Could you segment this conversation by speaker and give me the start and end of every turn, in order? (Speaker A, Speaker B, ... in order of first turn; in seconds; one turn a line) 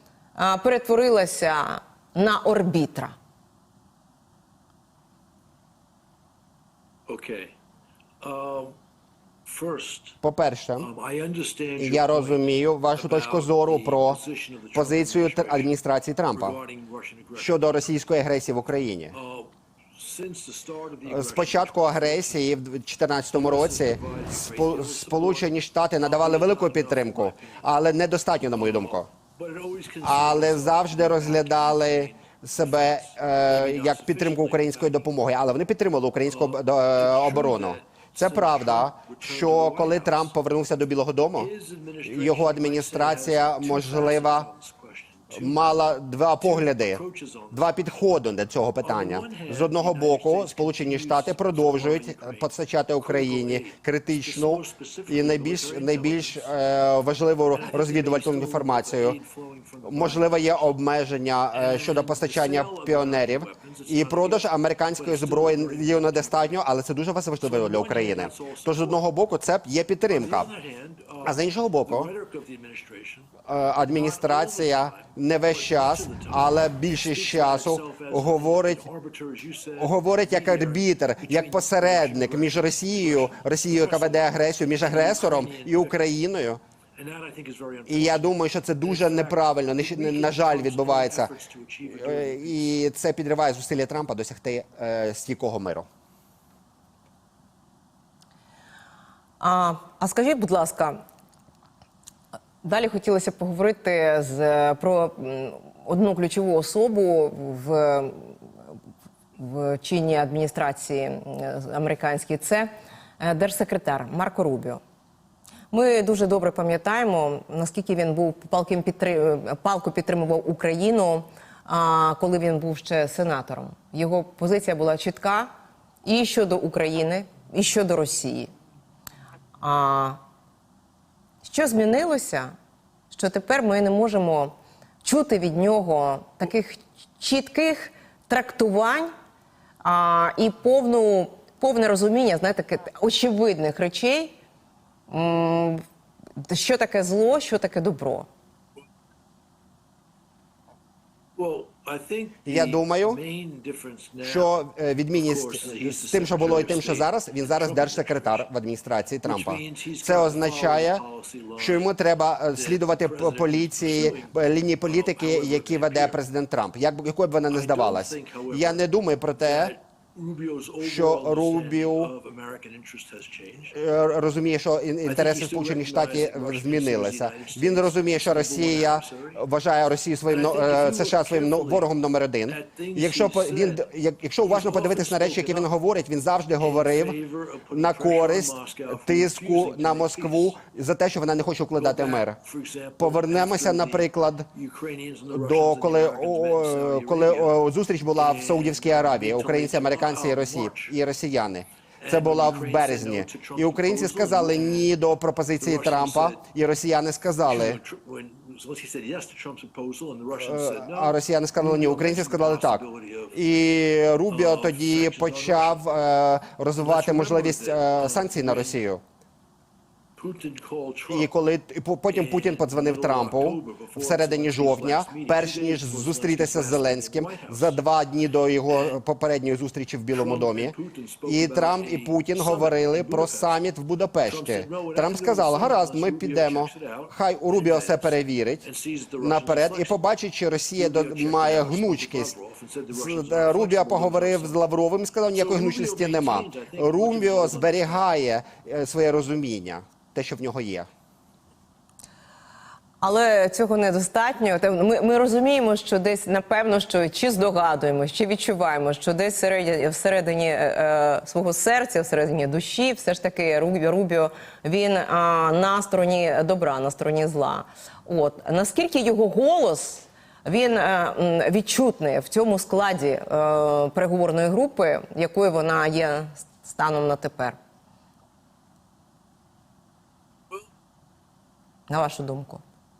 Speaker A: 0.3-3.1
Speaker B: 7.1-7.5
Speaker B: 8.2-8.8
Speaker B: 9.5-10.2
Speaker C: 10.2-10.9
Speaker B: 10.8-15.8
Speaker C: 11.8-14.2
Speaker C: 14.7-16.6
Speaker B: 16.3-18.0
Speaker C: 17.4-19.1
Speaker B: 19.1-22.4
Speaker C: 21.1-29.1
Speaker B: 23.3-27.7
Speaker B: 28.5-35.1
Speaker C: 30.0-41.5
Speaker B: 36.3-40.3
Speaker B: 41.3-48.0
Speaker C: 42.0-44.5
Speaker C: 45.3-47.0
Speaker C: 47.5-59.2
Speaker B: 48.8-56.9
Speaker B: 57.5-60.7
Speaker C: 59.8-70.5
Speaker B: 61.5-66.5
Speaker B: 67.4-69.0
Speaker B: 70.1-86.0
Speaker C: 71.2-72.1
Speaker C: 73.5-78.9
Speaker C: 79.8-86.6
Speaker B: 87.0-92.6
Speaker C: 87.9-91.3
Speaker C: 91.8-95.9
Speaker A: 99.4-101.0
Speaker A: 102.6-108.4
Speaker A: 109.4-114.8
Speaker A: 115.7-125.5
Speaker A: 126.0-128.5
Speaker A: 129.6-130.2
Speaker A: 131.4-132.5
Speaker A: 133.1-139.1
Speaker A: 139.8-144.3
Speaker A: 145.1-145.8
Speaker A: 146.4-148.3
Speaker B: 151.3-154.5
Speaker C: 152.5-153.2
Speaker C: 154.2-161.0
Speaker B: 155.1-158.5
Speaker B: 159.2-161.9
Speaker C: 161.6-169.7
Speaker B: 162.5-166.2
Speaker B: 167.5-173.8
Speaker C: 170.8-172.2
Speaker C: 173.7-187.2
Speaker B: 175.0-179.4
Speaker B: 180.3-181.9
Speaker B: 182.5-183.8
Speaker B: 184.4-185.7
Speaker B: 186.6-190.6
Speaker C: 187.7-192.4
Speaker B: 191.8-197.6
Speaker C: 193.0-194.5
Speaker C: 195.3-207.8
Speaker B: 198.2-201.0
Speaker B: 202.0-205.0
Speaker B: 205.6-206.4
Speaker B: 207.4-213.4
Speaker C: 210.3-219.0
Speaker B: 214.3-215.8
Speaker B: 216.8-218.8
Speaker B: 220.2-221.3
Speaker C: 221.1-238.7
Speaker B: 222.1-227.8
Speaker B: 228.7-229.0
Speaker B: 230.1-233.6
Speaker B: 234.3-240.2
Speaker C: 239.2-242.3
Speaker B: 240.7-244.6
Speaker C: 242.9-250.9
Speaker B: 245.3-248.0
Speaker A: 253.0-277.6
Speaker A: 281.9-282.6